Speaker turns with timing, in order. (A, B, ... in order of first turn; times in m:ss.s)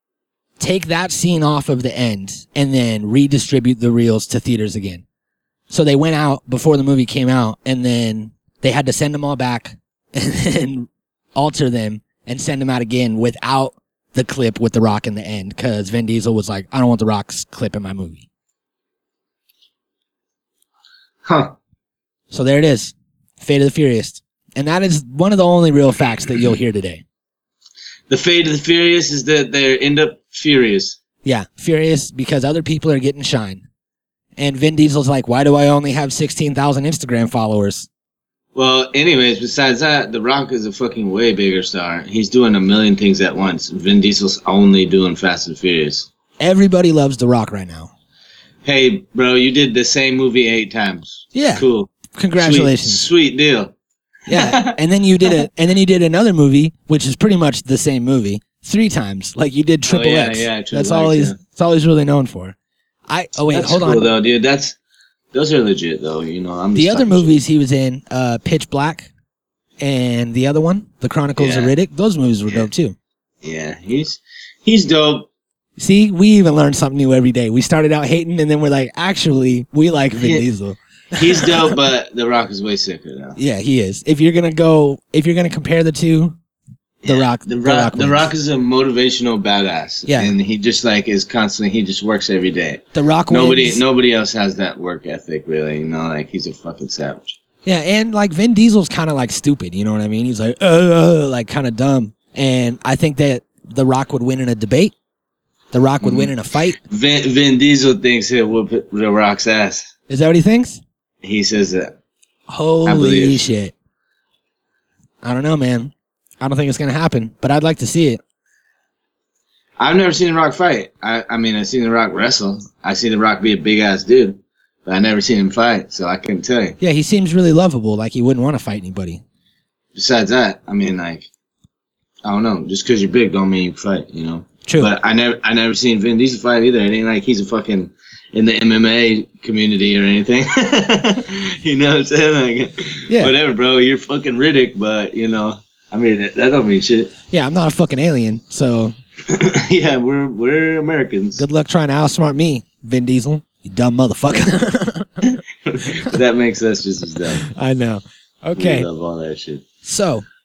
0:00.6-0:05.0 A
0:05.7-0:18.3 A
0:21.2-0:21.6 B
0:22.3-0:27.0 A
0:28.1-0:31.0 B
0:31.2-0:33.6 A
0:34.4-0:37.9 A
0:38.5-0:46.1 B
0:46.4-0:47.9 A
0:48.6-0:53.7 B
0:51.3-0:53.0 A
0:54.3-1:02.6 A
0:54.3-0:54.8 B
0:59.9-1:01.4 B
1:03.1-1:04.1 A
1:03.5-1:04.8 B
1:05.3-1:07.4 B
1:06.7-1:09.1 A
1:09.8-1:12.9 A
1:11.4-1:11.7 B
1:13.4-1:15.3 B
1:15.8-1:21.6 A
1:20.2-1:20.4 B
1:21.1-1:23.4 B
1:23.4-1:26.4 A
1:27.0-1:37.4 B
1:27.0-1:28.3 A
1:30.1-1:30.3 A
1:32.9-1:33.8 A
1:37.6-1:44.9 A
1:45.7-1:46.8 A
1:46.0-1:49.9 B
1:50.1-1:50.8 A
1:51.2-1:52.0 B
1:52.5-1:53.7 A
1:52.8-1:53.4 B
1:55.2-1:58.2 A
1:59.8-2:06.8 B
2:06.8-2:09.2 A
2:09.9-2:11.3 B
2:12.2-2:27.1 B
2:14.7-2:14.9 A
2:27.3-2:28.9 A
2:29.3-2:31.4 B
2:31.4-2:35.3 A
2:35.6-2:37.4 B
2:37.5-2:38.9 A
2:38.5-2:39.6 B
2:39.8-2:40.2 A